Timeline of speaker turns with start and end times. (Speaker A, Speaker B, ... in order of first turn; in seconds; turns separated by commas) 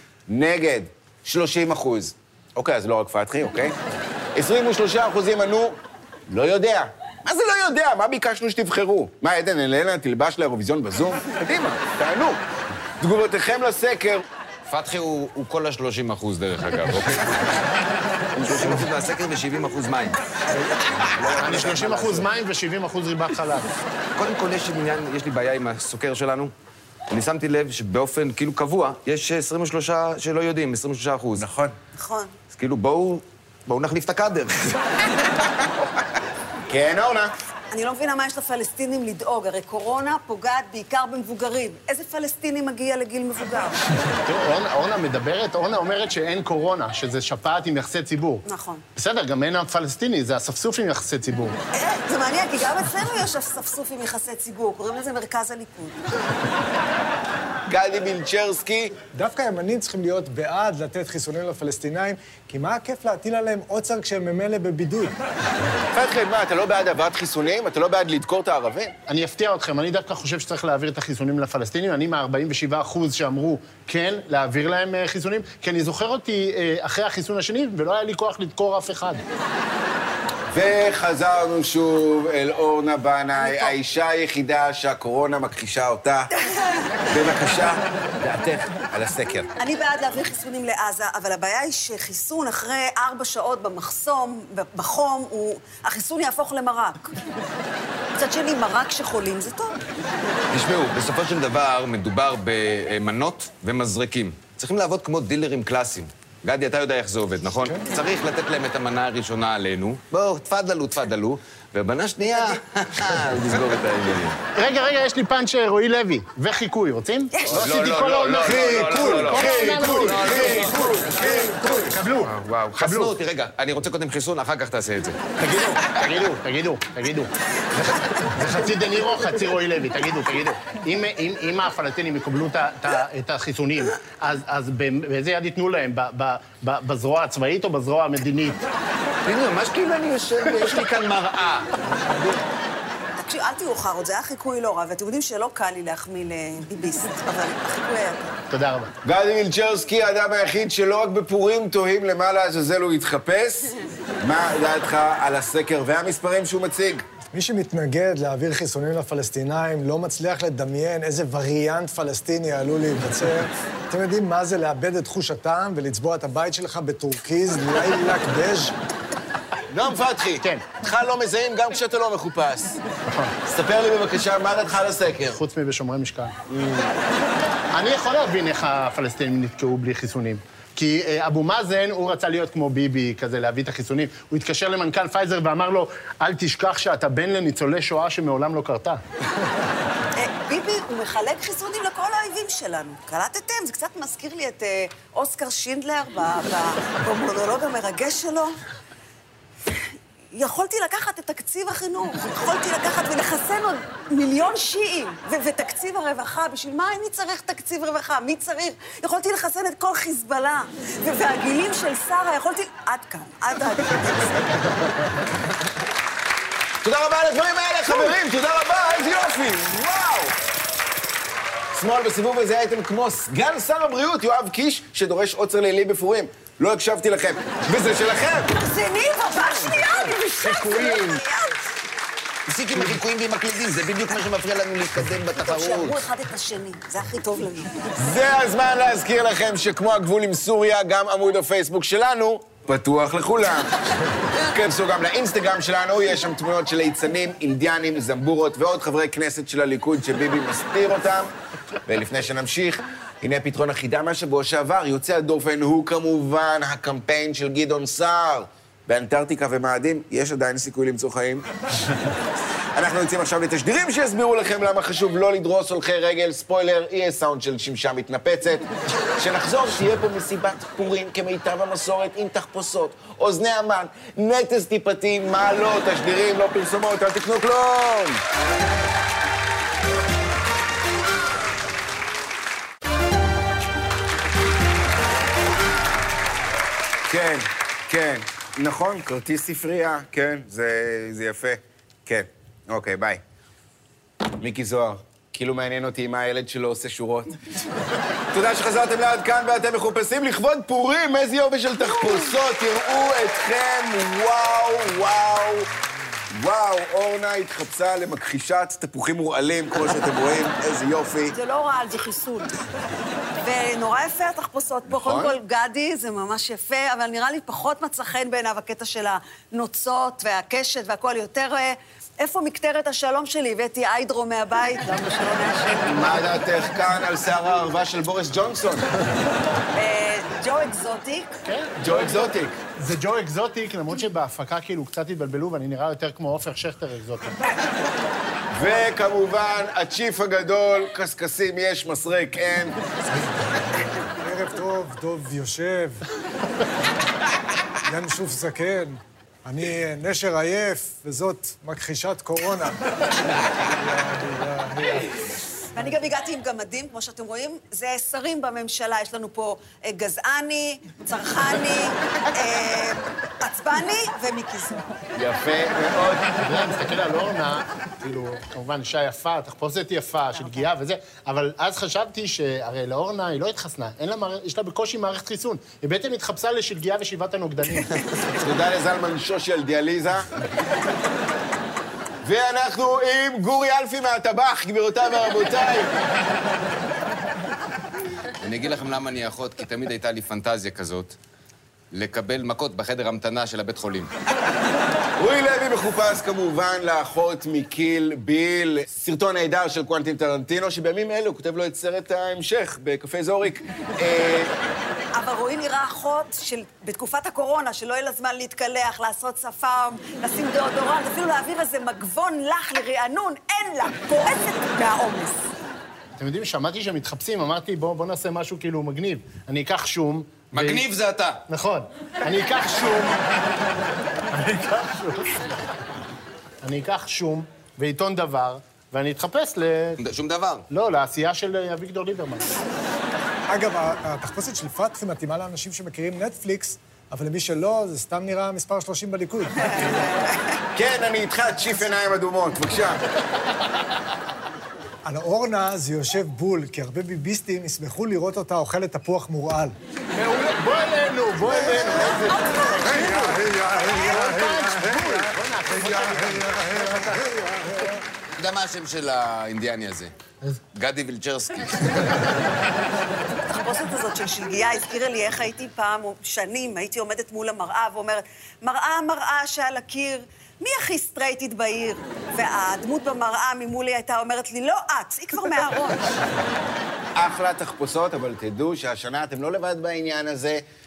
Speaker A: 0.3-3.8, Speaker A: 4.3-5.8, Speaker A: 6.3-12.4, Speaker A: 13.0-14.2, Speaker B: 14.7-17.6, Speaker B: 18.4-20.2, Speaker B: 21.0-22.3, Speaker C: 21.4-23.7, Speaker B: 24.2-26.5, Speaker B: 27.1-31.5, Speaker A: 31.4-31.8, Speaker D: 31.9-32.4, Speaker B: 32.5-34.9, Speaker A: 36.7-37.3, Speaker D: 37.7-43.8, Speaker C: 44.2-48.4, Speaker D: 48.5-48.8, Speaker C: 49.0-51.6, Speaker D: 51.7-56.0, Speaker A: 57.7-59.0, Speaker E: 59.1-65.2, Speaker A: 65.9-68.9, Speaker C: 69.1-79.2, Speaker A: 80.5-86.3, Speaker D: 86.4-86.9, Speaker A: 87.1-89.5, Speaker D: 89.6-97.1, Speaker D: 98.2-99.8, Speaker B: 100.5-114.4, Speaker C: 114.5-123.1, Speaker D: 117.3-117.6, Speaker B: 117.5-121.0, Speaker A: 118.4-121.8, Speaker E: 118.5-119.8, Speaker B: 122.3-125.2, Speaker C: 125.4-138.7, Speaker B: 139.3-141.7, Speaker E: 141.9-142.4, Speaker D: 143.2-148.3, Speaker C: 148.5-148.9, Speaker A: 149.0-157.1, Speaker E: 157.3-168.8, Speaker A: 169.7-172.8, Speaker C: 173.1-173.3, Speaker A: 173.4-175.4, Speaker C: 175.3-176.3, Speaker A: 176.5-176.9, Speaker C: 177.7-189.0, Speaker D: 190.2-198.6, Speaker D: 200.3-214.6, Speaker A: 216.8-220.4, Speaker A: 221.7-228.5, Speaker D: 228.5-231.6, Speaker B: 230.7-231.2, Speaker B: 232.5-236.0, Speaker D: 235.4-237.7, Speaker A: 238.0-243.7, Speaker A: 244.3-251.3, Speaker A: 251.9-261.5, Speaker A: 262.7-268.7, Speaker A: 269.2-278.2, Speaker A: 287.1-293.2, Speaker A: 294.4-297.4, Speaker A: 298.3-305.7, Speaker A: 306.3-311.4, Speaker D: 311.3-312.5, Speaker D: 313.4-326.3, Speaker A: 314.9-315.4, Speaker A: 325.8-328.9, Speaker D: 329.8-331.3, Speaker C: 331.5-337.4, Speaker A: 331.8-332.6, Speaker A: 338.5-342.8, Speaker E: 344.2-346.0, Speaker E: 347.9-355.1, Speaker D: 355.8-364.9, Speaker A: 365.2-366.3, Speaker C: 366.4-378.2, Speaker A: 378.4-380.3, Speaker A: 382.2-385.9, Speaker B: 388.4-391.2, Speaker B: 391.9-394.1, Speaker A: 395.2-404.5, Speaker D: 405.1-415.5, Speaker C: 416.2-420.9, Speaker B: 420.5-421.4, Speaker C: 421.5-423.2, Speaker C: 424.4-425.4, Speaker C: 426.6-430.0, Speaker B: 430.0-430.7, Speaker C: 430.7-432.5, Speaker E: 433.5-440.2, Speaker A: 440.8-443.0, Speaker E: 445.1-449.8, Speaker C: 450.2-457.2, Speaker E: 451.4-452.2, Speaker D: 452.0-453.3, Speaker E: 452.8-458.0, Speaker D: 453.8-454.2, Speaker B: 458.4-460.1, Speaker B: 460.8-462.2, Speaker D: 463.5-476.1, Speaker A: 477.2-480.6